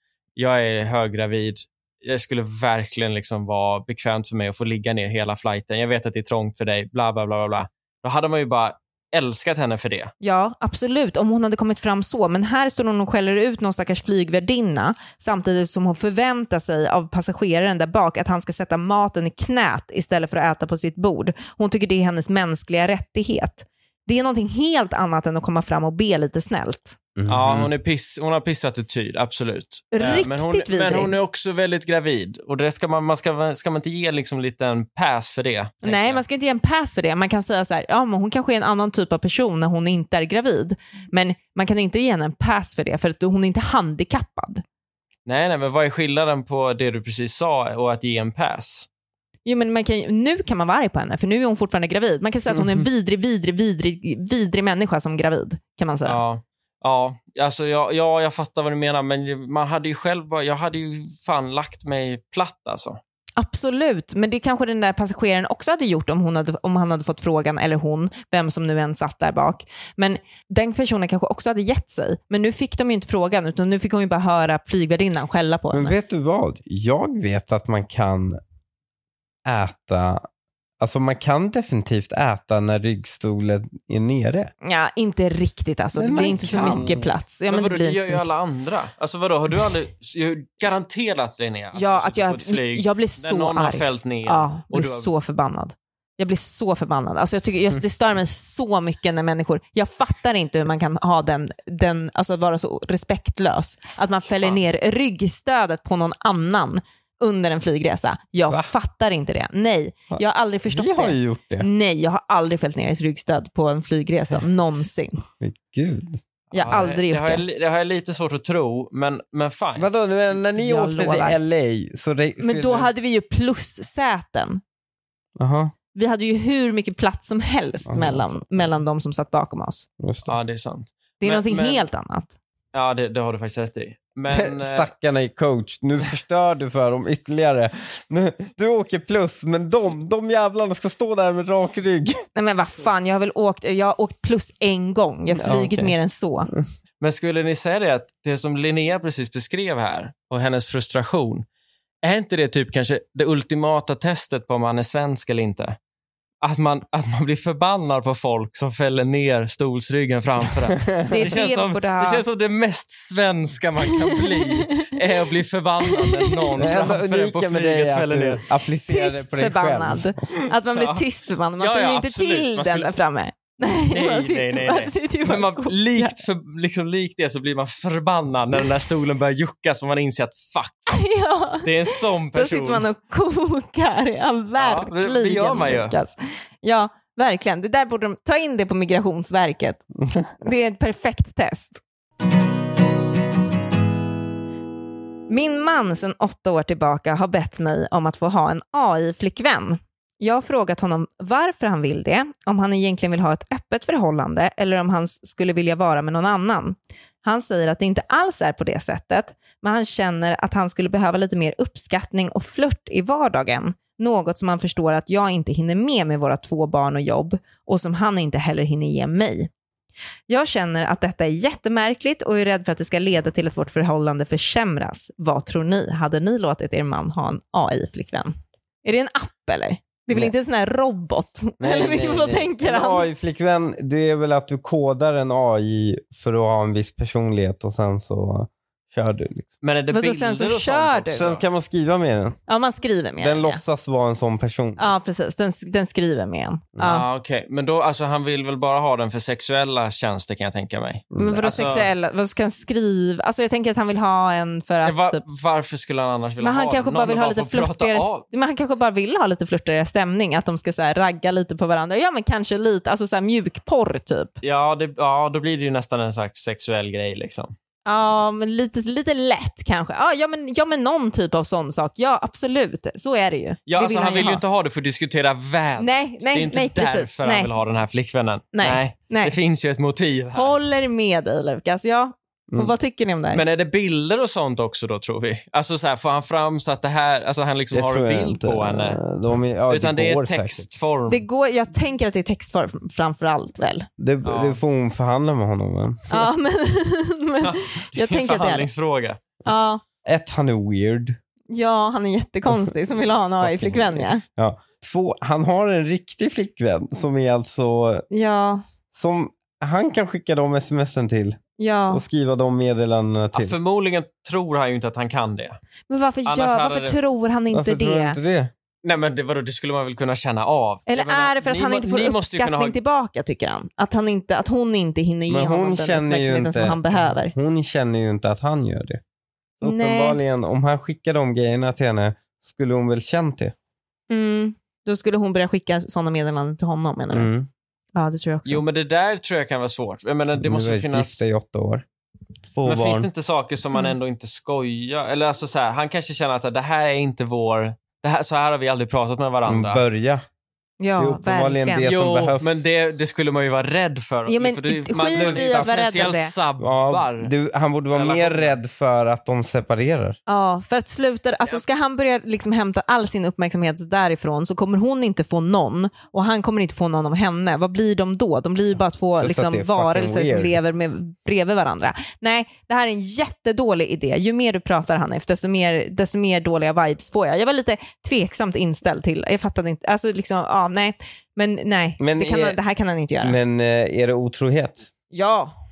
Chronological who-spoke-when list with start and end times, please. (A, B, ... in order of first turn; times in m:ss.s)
0:00.4-0:10.1 A
0:10.2-0:27.0 B
0:27.2-0:27.7 C
0:27.3-0:36.2 A
0:29.9-0:31.1 B
0:35.8-0:44.6 B
0:45.2-0:48.9 A
0:49.4-0:56.2 B
0:56.0-1:03.0 A
1:03.4-1:16.0 B
1:15.7-1:18.4 C
1:19.4-1:20.2 C
1:20.8-1:24.5 C
1:24.6-1:28.2 B
1:26.0-1:27.1 C
1:26.4-1:35.1 A
1:31.7-1:55.2 B
1:50.1-1:51.7 C
1:55.4-1:56.2 C
1:56.5-1:59.9 A
1:56.5-1:57.4 B
1:59.8-2:02.9 C
2:00.6-2:01.4 B
2:02.4-2:04.6 B
2:05.4-2:05.7 C
2:05.9-2:09.9 B
2:07.9-2:08.2 C
2:10.0-2:10.3 C
2:10.3-2:11.8 A
2:11.2-2:12.3 B
2:12.7-2:14.9 A
2:14.3-2:22.2 C
2:22.3-2:26.5 B
2:25.3-2:25.9 C
2:27.0-2:31.4 A
2:32.0-2:35.8 A
2:36.4-2:48.4 A
2:40.8-2:41.3 C
2:41.1-2:42.2 B
2:43.9-2:45.0 B
2:45.8-2:46.7 B
2:46.6-2:50.1 C
2:48.8-2:56.2 B
2:50.7-2:51.0 A
2:51.6-2:52.9 A
2:53.9-3:01.0 A
3:00.9-3:09.8 B
3:01.6-3:02.8 A
3:04.6-3:06.0 A
3:10.4-3:11.8 B
3:15.3-3:39.5 B
3:40.3-3:53.1 B
3:51.6-3:59.5 C
3:59.6-4:01.4 A
3:59.9-4:01.3 B
4:01.1-4:02.4 C
4:02.5-4:03.6 B
4:03.2-4:04.9 C
4:04.8-4:07.0 B
4:06.8-4:11.9 A
4:11.1-4:11.7 C
4:11.2-4:15.2 B
4:14.8-4:18.2 A
4:16.4-4:24.4 B
4:24.4-4:27.5 A
4:27.8-4:34.4 B
4:33.7-4:40.5 A
4:35.8-4:37.5 B
4:38.5-4:39.4 B
4:40.3-4:43.4 B
4:43.3-4:49.0 A
4:47.7-4:50.6 C
4:49.7-4:51.2 A
4:51.1-4:53.9 B
4:54.0-4:56.3 C
4:54.2-4:54.6 A
4:56.1-4:58.7 B
4:57.4-4:59.2 A
4:59.4-4:59.8 B
5:00.0-5:01.2 C
5:01.5-5:04.2 B
5:03.4-5:08.0 C
5:08.1-5:08.6 B
5:08.9-5:11.4 C
5:11.6-5:12.0 B
5:11.9-5:13.6 C
5:13.3-5:15.6 A
5:15.9-5:18.2 B
5:16.2-5:17.0 A
5:17.5-5:18.5 C
5:18.8-5:22.8 A
5:20.9-5:27.3 B
5:25.3-5:29.0 C
5:29.6-5:33.5 C
5:29.6-5:30.2 B
5:34.1-5:37.3 B
5:37.1-5:37.5 C
5:37.9-5:38.6 B
5:38.4-5:41.2 A
5:40.4-5:41.8 C
5:42.5-5:43.1 C
5:42.6-5:49.8 A
5:49.4-5:50.2 C
5:50.8-5:51.9 B
5:51.0-5:52.6 C
5:51.8-5:57.3 A
5:54.3-5:56.3 B
5:54.9-5:56.0 C
5:56.6-6:00.2 C
5:57.9-5:58.6 A
6:00.3-6:23.4 B
6:09.2-6:10.6 C
6:22.0-6:22.6 C
6:23.2-6:24.9 C
6:25.1-6:25.5 B